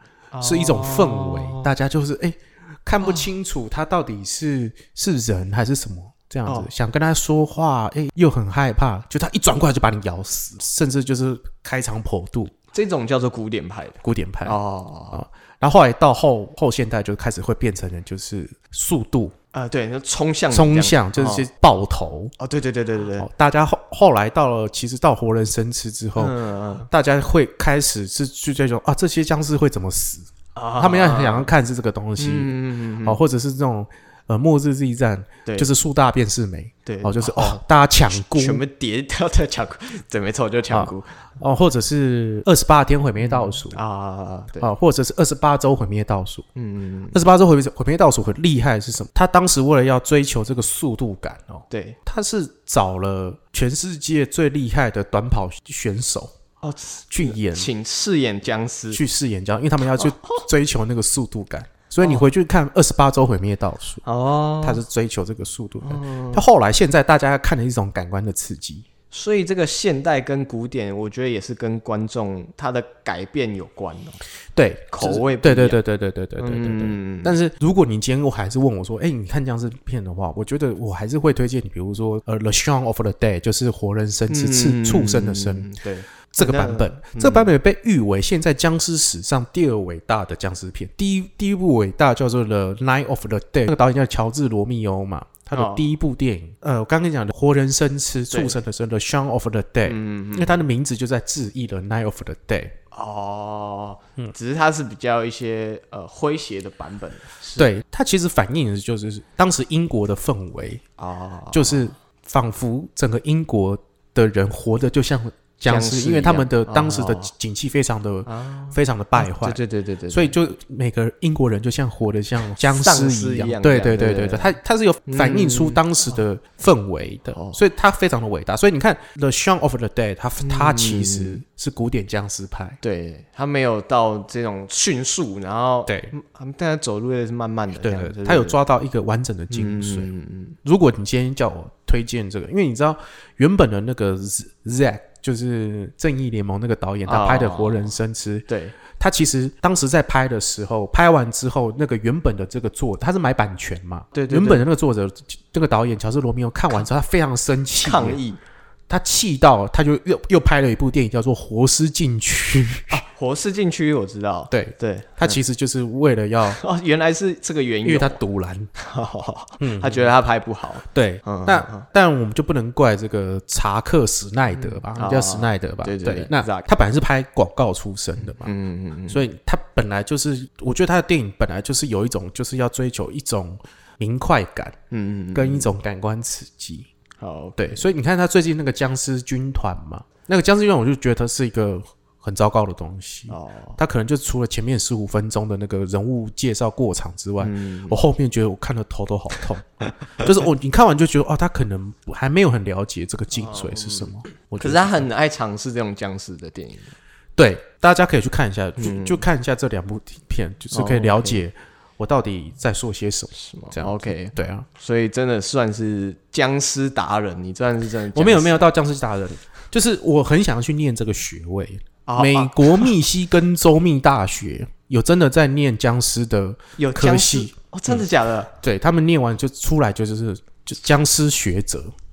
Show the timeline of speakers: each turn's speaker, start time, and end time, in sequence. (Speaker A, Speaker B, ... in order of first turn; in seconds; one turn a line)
Speaker A: 0.3-1.7
Speaker B: 0.4-12.5
Speaker A: 12.7-15.2
Speaker B: 14.0-14.6
Speaker B: 15.1-19.3
Speaker A: 19.5-21.4
Speaker B: 20.5-22.3
Speaker A: 22.4-23.3
Speaker B: 23.2-26.4
Speaker A: 26.2-26.9
Speaker B: 26.9-38.6
Speaker A: 30.6-31.5
Speaker A: 32.2-33.2
Speaker A: 36.9-41.2
Speaker B: 40.7-43.8
Speaker A: 43.2-44.7
Speaker B: 44.6-46.4
Speaker A: 46.5-47.2
Speaker B: 47.1-56.3
Speaker A: 51.7-52.0
Speaker A: 56.6-59.0
Speaker B: 57.1-57.7
Speaker B: 58.9-64.0
Speaker A: 60.0-60.4
Speaker A: 64.0-64.8
Speaker B: 64.6-68.8
Speaker A: 65.8-66.4
Speaker A: 69.1-74.2
Speaker B: 74.5-85.7
Speaker A: 74.9-75.8
Speaker A: 76.4-77.3
Speaker A: 84.3-87.5
Speaker B: 86.3-102.7
Speaker A: 95.5-95.8
Speaker A: 99.8-100.6
Speaker A: 102.9-107.7
Speaker B: 107.6-110.8
Speaker A: 111.0-111.9
Speaker B: 111.5-132.8
Speaker A: 115.6-117.3
Speaker A: 118.2-120.3
Speaker A: 122.6-124.5
Speaker A: 125.1-125.8
Speaker A: 127.3-127.6
Speaker A: 130.4-131.4
Speaker A: 132.8-138.6
Speaker B: 135.9-136.1
Speaker B: 137.8-140.1
Speaker A: 139.5-140.6
Speaker B: 140.6-158.2
Speaker A: 147.1-147.9
Speaker A: 148.5-148.7
Speaker A: 154.1-154.6
Speaker A: 157.8-158.4
Speaker B: 158.9-163.0
Speaker A: 162.9-165.4
Speaker B: 164.5-166.6
Speaker A: 166.5-168.2
Speaker B: 167.8-168.7
Speaker A: 168.8-171.8
Speaker B: 169.6-170.1
Speaker B: 170.9-178.5
Speaker A: 174.5-176.7
Speaker A: 178.2-179.2
Speaker B: 179.1-184.8
Speaker A: 184.9-185.7
Speaker B: 185.3-186.9
Speaker A: 187.2-187.8
Speaker B: 187.6-205.1
Speaker A: 193.3-193.8
Speaker A: 197.4-198.0
Speaker A: 203.3-206.9
Speaker B: 207.3-214.7
Speaker A: 208.8-209.2
Speaker A: 210.7-211.4
Speaker A: 213.3-218.6
Speaker B: 218.1-228.1
Speaker A: 222.1-222.9
Speaker A: 226.8-228.5
Speaker B: 228.6-231.9